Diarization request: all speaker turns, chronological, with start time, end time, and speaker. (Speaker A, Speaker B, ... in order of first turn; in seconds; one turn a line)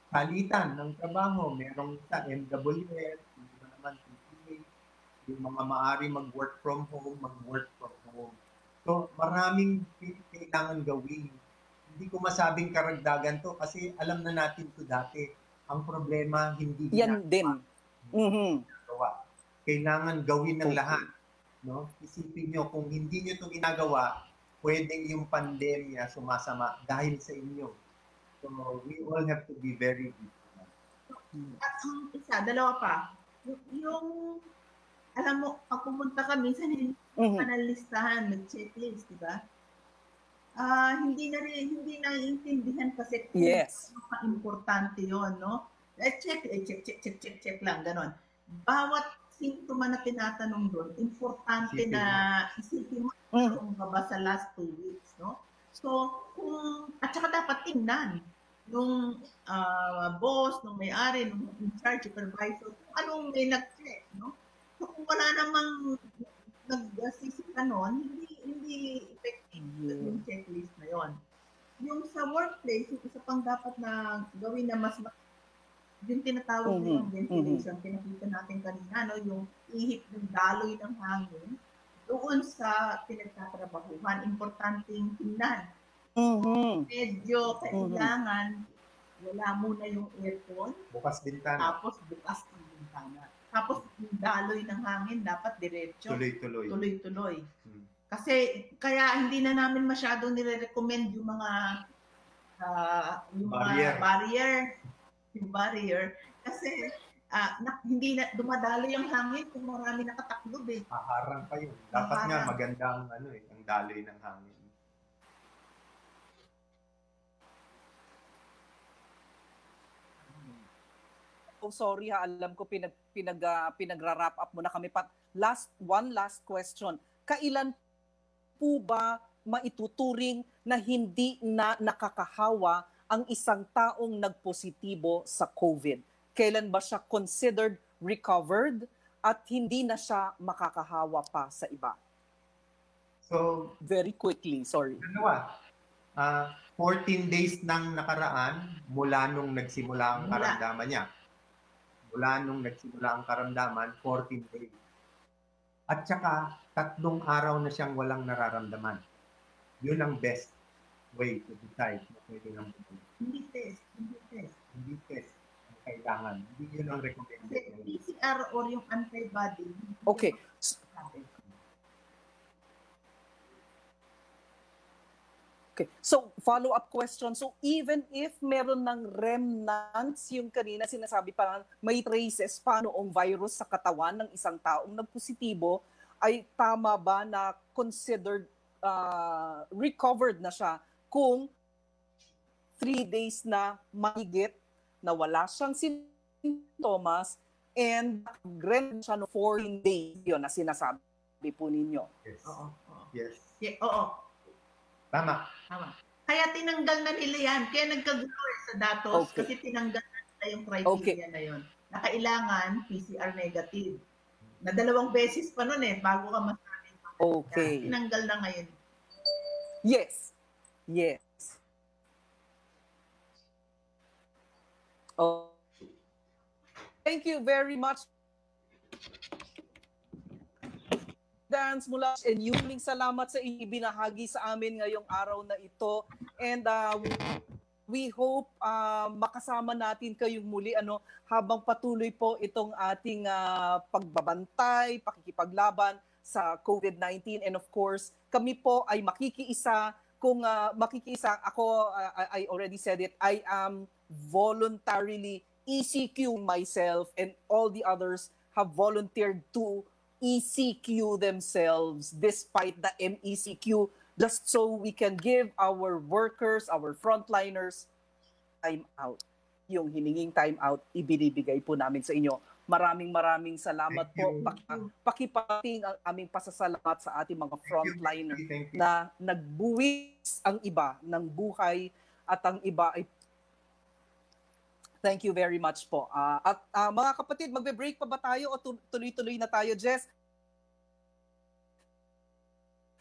Speaker A: 0.1-4.6
Speaker A: 5.2-19.1
Speaker B: 16.9-17.6
Speaker B: 18.1-18.6
Speaker A: 19.6-21.1
Speaker B: 20.6-21.1
Speaker A: 21.6-27.8
Speaker A: 28.4-30.7
Speaker C: 31.1-34.4
Speaker B: 31.3-31.8
Speaker C: 35.2-39.4
Speaker B: 37.2-37.5
Speaker C: 40.6-71.2
Speaker B: 43.3-43.9
Speaker A: 51.6-52.2
Speaker B: 69.6-70.2
Speaker C: 71.8-75.1
Speaker C: 76.0-81.5
Speaker B: 76.7-77.6
Speaker C: 82.0-85.6
Speaker B: 86.2-86.9
Speaker C: 86.8-88.5
Speaker B: 87.7-88.1
Speaker C: 89.2-90.8
Speaker A: 90.9-91.8
Speaker C: 91.6-97.4
Speaker A: 96.1-96.8
Speaker C: 98.1-101.5
Speaker C: 102.6-104.7
Speaker A: 103.5-104.1
Speaker C: 105.3-110.8
Speaker A: 110.9-114.7
Speaker C: 111.9-112.5
Speaker B: 120.3-120.6
Speaker B: 121.6-127.7
Speaker B: 128.6-142.0
Speaker A: 143.2-143.8
Speaker B: 143.8-145.0
Speaker A: 145.0-145.5
Speaker A: 146.2-151.0
Speaker C: 150.2-150.6
Speaker A: 152.1-154.7
Speaker A: 155.9-159.0
Speaker A: 159.8-160.5
Speaker A: 161.1-163.1
Speaker C: 163.2-164.5
Speaker A: 164.7-168.0
Speaker C: 167.4-170.4
Speaker B: 170.1-170.7
Speaker C: 170.9-171.3
Speaker B: 175.8-191.5
Speaker B: 192.8-202.1
Speaker A: 202.2-202.6
Speaker C: 202.4-203.1
Speaker A: 203.1-203.5
Speaker C: 203.6-204.2
Speaker A: 205.1-205.4
Speaker C: 205.7-214.0
Speaker B: 209.1-209.5
Speaker B: 210.8-211.2
Speaker C: 214.6-218.7
Speaker B: 217.2-217.9
Speaker B: 219.8-220.3
Speaker B: 220.9-221.6
Speaker B: 225.2-225.6
Speaker B: 227.0-228.1
Speaker B: 231.5-237.3
Speaker B: 237.9-267.9
Speaker B: 268.6-283.1
Speaker A: 273.9-274.7
Speaker A: 277.6-278.9
Speaker B: 285.0-290.1